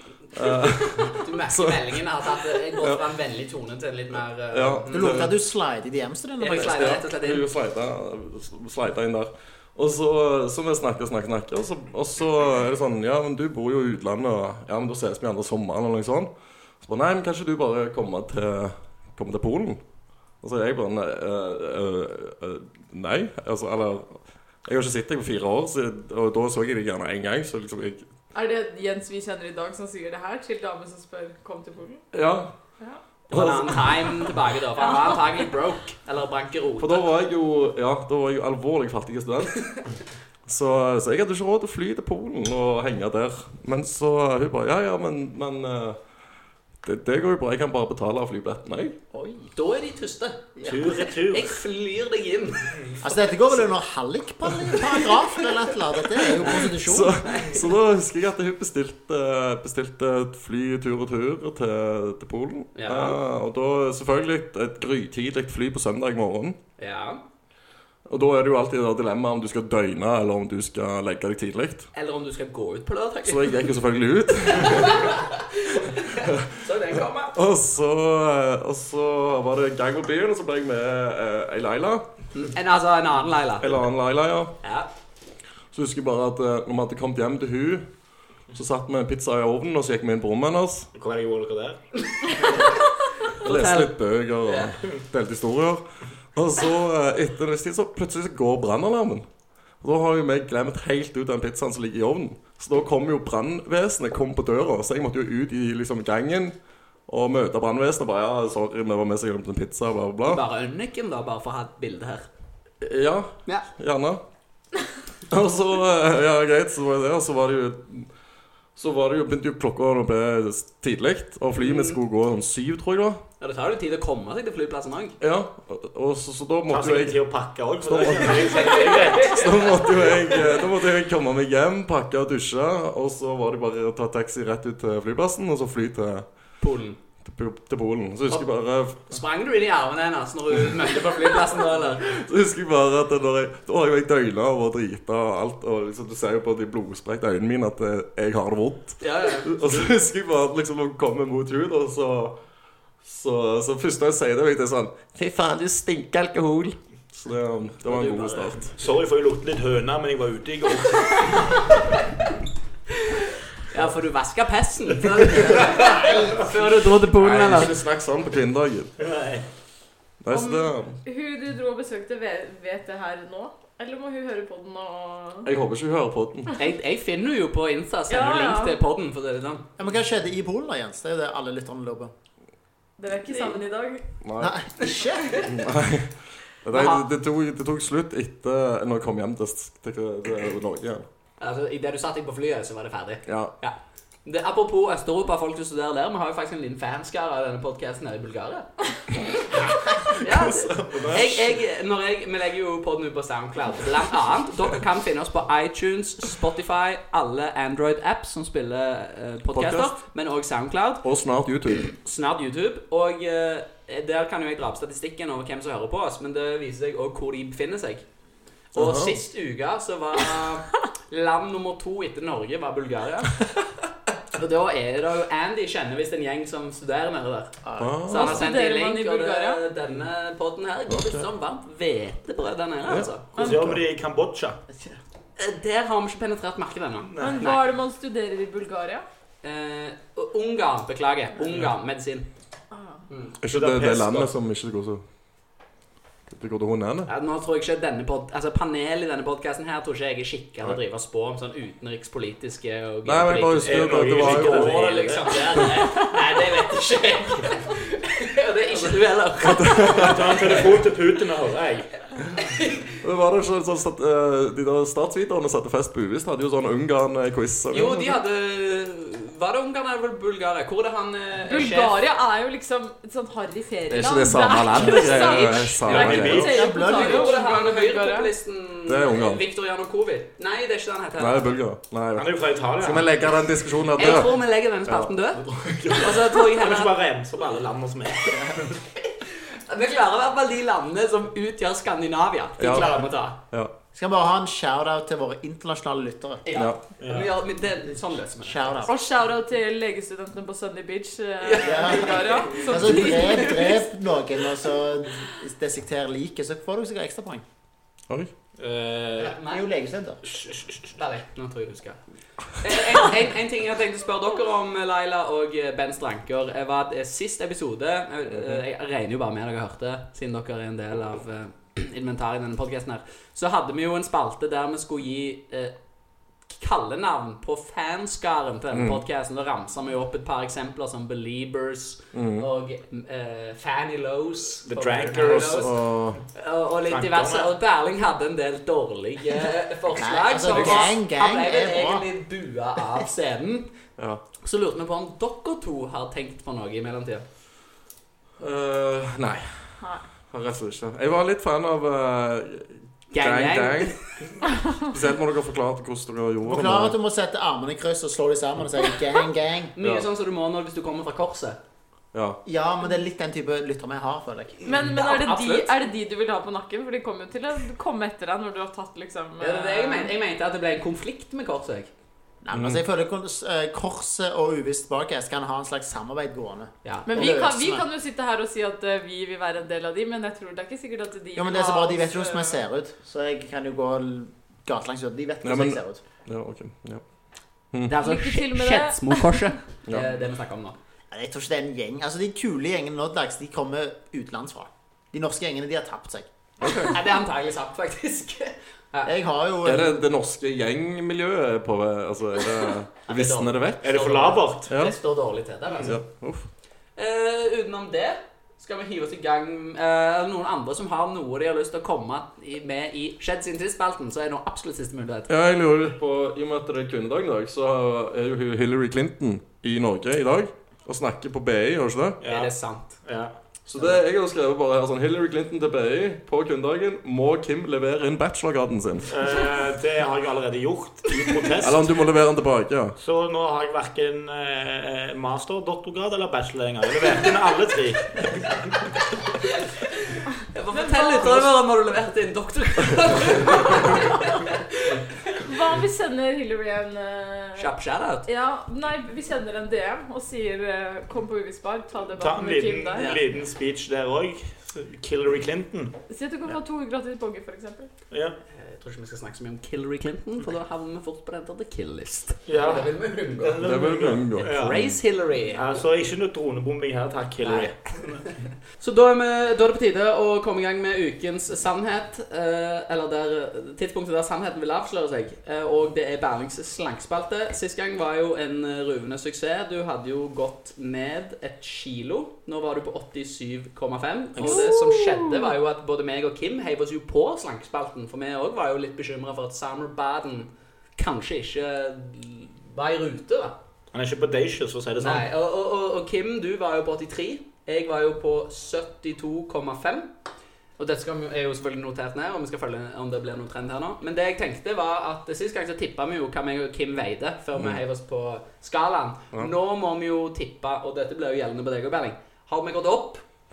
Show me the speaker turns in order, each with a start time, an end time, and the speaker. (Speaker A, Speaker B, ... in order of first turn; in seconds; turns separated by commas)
Speaker A: 0.3-2.0, Speaker B: 1.0-5.1, Speaker A: 2.8-3.0, Speaker A: 4.5-5.3, Speaker C: 4.9-7.0, Speaker B: 6.4-7.4, Speaker A: 6.5-19.8, Speaker A: 20.4-28.0, Speaker D: 28.3-32.0, Speaker A: 32.1-32.5, Speaker B: 33.3-37.0, Speaker A: 33.3-34.4, Speaker D: 34.9-35.2, Speaker A: 36.8-39.8, Speaker A: 40.5-46.0, Speaker A: 46.8-49.0, Speaker C: 49.1-49.5, Speaker B: 49.5-52.7, Speaker C: 50.5-51.0, Speaker E: 50.6-51.6, Speaker C: 53.0-57.3, Speaker B: 56.4-56.7, Speaker A: 56.4-66.6, Speaker B: 57.2-57.6, Speaker B: 62.7-63.2, Speaker B: 66.8-67.2, Speaker A: 68.1-71.9, Speaker B: 71.9-73.6, Speaker A: 73.2-75.2, Speaker B: 74.5-77.3, Speaker A: 76.2-82.0, Speaker B: 82.3-83.8, Speaker A: 83.6-84.5, Speaker B: 84.6-84.9, Speaker A: 85.7-87.8, Speaker A: 88.5-90.9, Speaker E: 90.9-91.8, Speaker B: 92.2-92.6, Speaker B: 93.4-93.9, Speaker A: 93.4-95.8, Speaker B: 94.4-94.7, Speaker A: 96.3-99.2, Speaker A: 99.8-106.5, Speaker A: 107.1-110.4, Speaker B: 110.2-112.3, Speaker A: 112.8-114.2, Speaker A: 115.3-118.1, Speaker A: 118.8-123.2, Speaker B: 121.6-122.0, Speaker B: 123.4-125.2, Speaker A: 125.2-127.2, Speaker E: 126.7-129.8, Speaker A: 127.8-128.5, Speaker B: 128.2-130.5, Speaker A: 129.2-136.2, Speaker B: 136.6-137.0, Speaker A: 137.2-139.0, Speaker B: 139.1-142.0, Speaker A: 141.9-152.4, Speaker B: 149.0-149.5, Speaker A: 153.0-158.7, Speaker B: 157.8-158.7, Speaker E: 158.8-161.7, Speaker B: 163.0-167.8, Speaker C: 165.6-166.5, Speaker A: 167.1-168.9, Speaker E: 169.0-169.4, Speaker A: 170.2-171.0, Speaker D: 170.3-175.5, Speaker A: 175.4-176.5, Speaker B: 176.6-179.7, Speaker D: 178.1-178.8, Speaker C: 179.8-182.1, Speaker D: 183.0-184.1, Speaker B: 183.3-183.6, Speaker A: 184.2-184.5, Speaker C: 184.4-185.4, Speaker A: 185.5-191.0, Speaker B: 186.7-187.1, Speaker B: 191.4-198.7, Speaker A: 193.2-193.5, Speaker A: 200.1-201.4, Speaker B: 200.1-211.0, Speaker A: 209.5-210.0, Speaker A: 211.0-211.9, Speaker B: 211.8-218.0, Speaker B: 218.7-223.4, Speaker A: 218.7-219.2, Speaker B: 224.3-233.3, Speaker C: 227.6-228.0, Speaker A: 227.8-228.4, Speaker D: 228.1-229.6, Speaker A: 230.9-231.2, Speaker A: 232.9-233.8, Speaker E: 233.3-234.6, Speaker C: 234.7-235.0, Speaker B: 235.4-237.6, Speaker E: 237.1-237.5, Speaker D: 237.2-239.0, Speaker B: 239.4-242.3, Speaker D: 242.7-243.0, Speaker B: 243.1-243.3, Speaker A: 243.4-245.0, Speaker E: 243.5-244.3, Speaker A: 246.3-247.1, Speaker B: 247.1-260.7, Speaker A: 253.0-255.0, Speaker E: 253.6-255.6, Speaker A: 259.4-260.4, Speaker E: 260.0-261.9, Speaker B: 262.4-262.9, Speaker A: 263.0-268.2, Speaker B: 267.7-272.0, Speaker D: 271.4-278.3, Speaker A: 273.9-276.5, Speaker B: 274.9-275.6, Speaker E: 275.8-276.6, Speaker C: 276.3-277.3, Speaker B: 276.6-281.5, Speaker A: 278.9-279.4, Speaker A: 281.2-286.4, Speaker E: 282.1-283.1, Speaker B: 284.0-285.4, Speaker B: 285.9-286.9, Speaker E: 286.4-288.8, Speaker B: 289.7-293.4, Speaker A: 292.6-292.9, Speaker E: 292.7-293.1, Speaker C: 293.9-296.4, Speaker B: 296.4-298.9, Speaker E: 297.0-297.3, Speaker C: 298.4-299.0, Speaker D: 298.9-303.8, Speaker B: 301.4-303.8, Speaker C: 301.6-307.4, Speaker E: 308.6-309.4, Speaker B: 309.2-309.6, Speaker C: 309.4-310.2, Speaker E: 310.2-310.9, Speaker B: 310.9-312.0, Speaker B: 312.5-325.7, Speaker A: 318.3-318.6, Speaker B: 326.5-335.7, Speaker A: 328.7-329.0, Speaker A: 332.1-332.4, Speaker E: 334.6-336.2, Speaker A: 335.2-336.2, Speaker B: 336.3-343.7, Speaker E: 336.9-337.5, Speaker C: 339.9-342.1, Speaker A: 340.5-340.9, Speaker B: 344.4-347.2, Speaker A: 348.4-349.8, Speaker A: 350.3-354.0, Speaker B: 353.1-354.0, Speaker A: 354.8-356.9, Speaker C: 356.4-359.7, Speaker B: 359.8-361.6, Speaker A: 359.8-360.1, Speaker A: 362.1-362.4, Speaker C: 362.4-364.6, Speaker D: 364.6-370.1, Speaker B: 364.6-365.8, Speaker B: 369.4-371.9, Speaker C: 372.4-377.9, Speaker A: 372.5-372.8, Speaker B: 376.8-377.4, Speaker D: 377.1-382.6, Speaker C: 381.4-386.0, Speaker A: 385.4-387.0, Speaker B: 387.9-390.8, Speaker D: 387.9-389.4, Speaker C: 391.1-396.3, Speaker A: 396.6-396.9, Speaker B: 396.9-399.1, Speaker C: 399.0-400.0, Speaker A: 399.6-404.0, Speaker B: 403.1-405.9, Speaker E: 403.8-404.7, Speaker A: 404.7-404.9, Speaker E: 405.7-406.0, Speaker A: 405.8-406.5, Speaker B: 407.0-415.3, Speaker A: 415.3-422.2, Speaker E: 422.2-423.9, Speaker B: 422.2-423.0, Speaker A: 423.6-429.1, Speaker E: 429.1-431.9, Speaker A: 431.6-432.9, Speaker E: 433.0-438.6, Speaker B: 439.4-445.0, Speaker D: 440.7-441.5, Speaker D: 445.4-447.7, Speaker B: 447.6-448.3, Speaker D: 448.2-453.2, Speaker E: 452.2-455.9, Speaker B: 452.9-453.2, Speaker D: 456.1-457.9, Speaker E: 458.1-458.4, Speaker B: 458.5-463.6, Speaker E: 462.5-464.8, Speaker A: 463.6-464.9, Speaker B: 464.4-465.6, Speaker E: 465.5-468.3, Speaker B: 467.4-467.7, Speaker B: 468.8-493.6, Speaker A: 484.4-485.5, Speaker E: 493.9-495.3, Speaker B: 495.0-500.1, Speaker B: 500.8-513.2, Speaker A: 507.6-507.8